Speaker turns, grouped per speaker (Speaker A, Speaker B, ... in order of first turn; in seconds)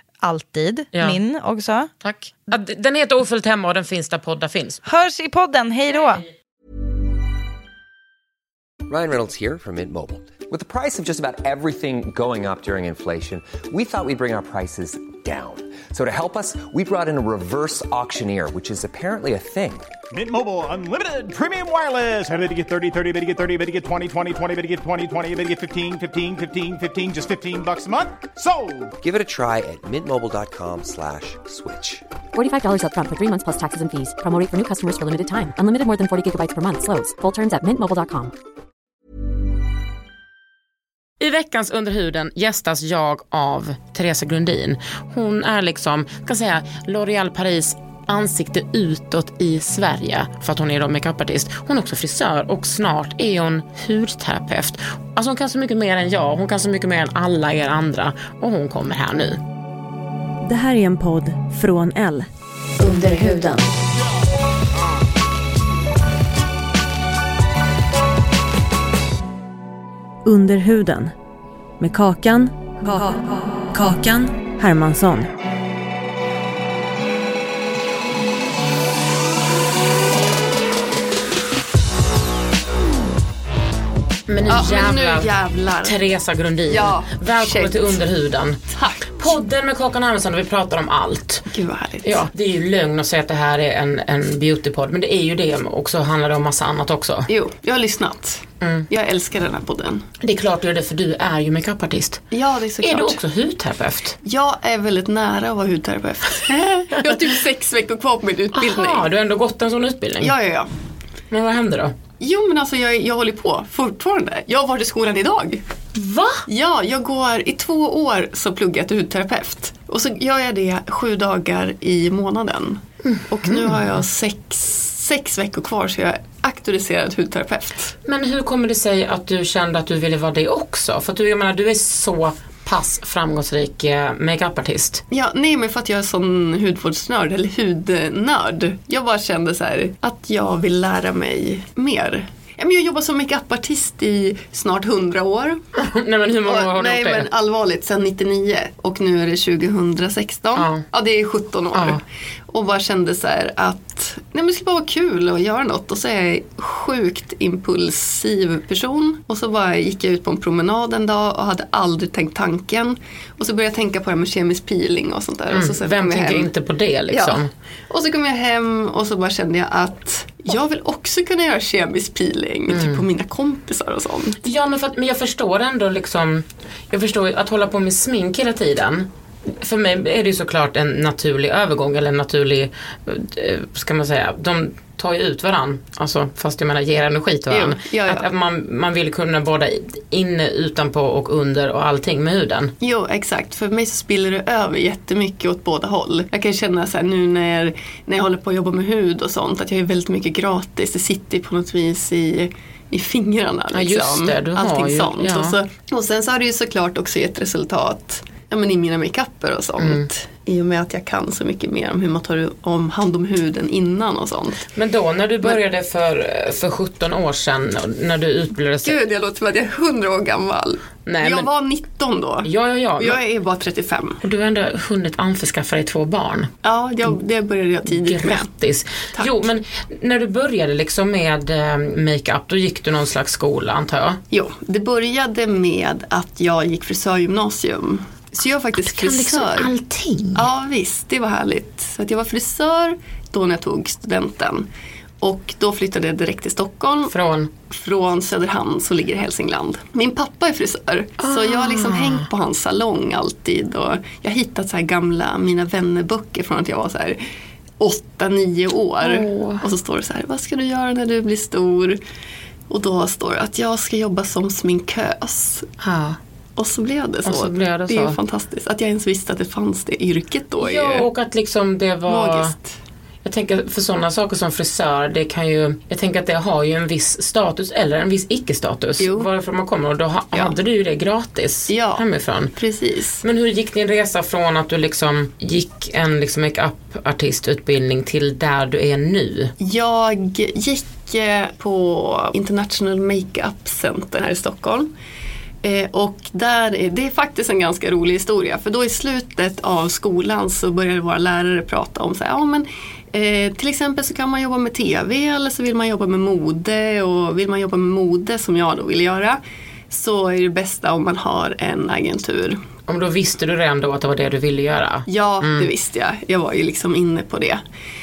Speaker A: 0.2-1.9, 4.8-6.2
Speaker B: 2.0-4.8, 41.2-59.4, 84.3-85.3, 85.8-91.5, 92.0-97.3, 98.6-98.9, 100.2-102.2, 102.8-104.2, 108.5-110.3, 111.3-112.0, 116.0-116.5, 123.0-123.8, 128.1-135.0, 145.8-147.3, 150.6-150.8, 151.7-152.0, 165.5-167.5, 172.7-173.0, 174.4-192.7, 203.7-205.6, 209.8-210.1, 214.7-219.0, 221.1-221.5, 222.4-223.2, 224.2-226.5, 227.9-234.2, 238.8-240.4, 247.1-247.5, 251.2-252.3, 259.0-259.6, 265.8-266.2, 267.2-268.2, 270.6-272.5, 273.2-282.5, 283.2-289.5, 312.9-315.7
Speaker C: 8.9-19.9, 29.0-32.0
Speaker D: 20.1-28.9
Speaker E: 32.3-38.3
Speaker F: 60.4-62.3, 62.8-63.7, 70.2-71.1, 71.8-75.3
Speaker G: 84.5-86.0, 86.7-88.0, 88.7-89.4, 91.5-92.3, 97.3-100.1, 102.3-103.2, 104.2-109.1, 110.2-110.7, 112.2-115.6, 116.5-128.0, 135.1-145.6, 146.4-166.5, 167.1-174.4, 187.5-188.3, 192.8-214.7, 218.8-224.2, 226.6-228.5, 229.1-229.4, 234.3-239.7, 240.3-244.7, 245.2-247.2, 247.7-257.2, 257.8-262.0, 262.7-265.7, 266.6-271.1, 272.1-272.7, 279.0-279.3, 281.7-283.2, 289.6-294.9, 295.6-312.6, 315.1-317.6